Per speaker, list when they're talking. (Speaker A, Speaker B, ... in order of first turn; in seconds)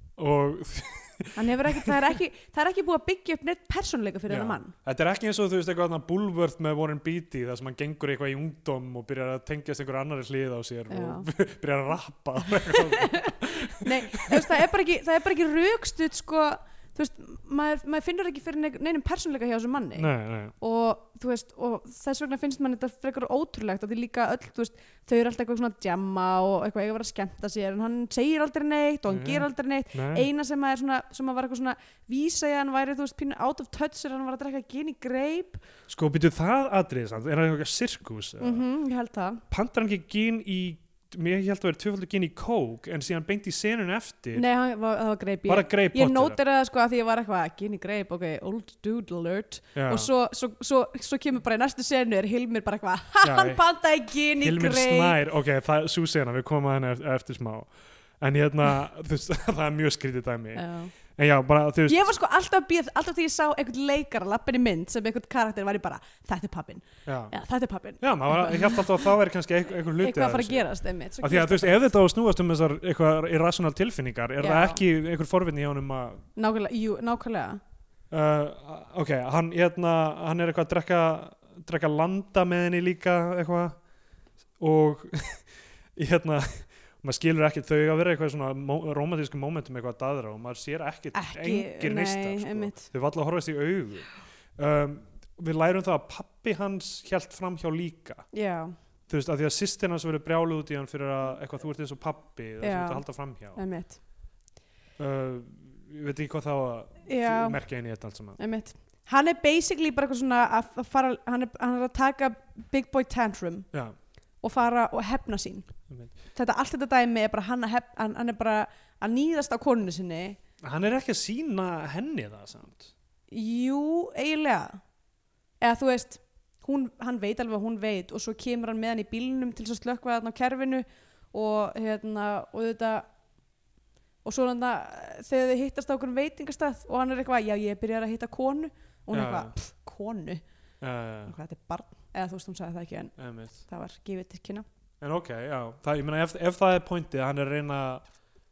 Speaker A: 0.2-1.9, 4.3-14.6, 19.9-20.5, 29.1-30.3, 35.9-38.6, 39.5-44.4, 45.5-46.4, 49.7-50.1, 53.2-53.6, 54.4-62.0, 67.0-67.3, 68.0-70.7, 71.2-76.2, 78.1-83.8, 84.6-98.2, 99.1-103.6, 105.0-108.4, 120.6-122.9, 139.1-139.5, 140.8-141.3, 143.2-143.6, 145.0-148.0
Speaker B: 1.4-4.7, 10.9-11.3, 12.6-35.6, 38.4-39.4, 44.3-55.2, 60.5-60.9, 61.9-69.0, 69.9-71.8, 74.4-74.8, 76.3-77.6, 91.1-92.9, 98.3-98.7, 102.6-104.0, 107.1-107.6, 108.4-113.7, 114.4-115.7, 116.3-120.4, 123.3-124.8, 125.6-133.1, 134.2-140.4, 141.3-144.6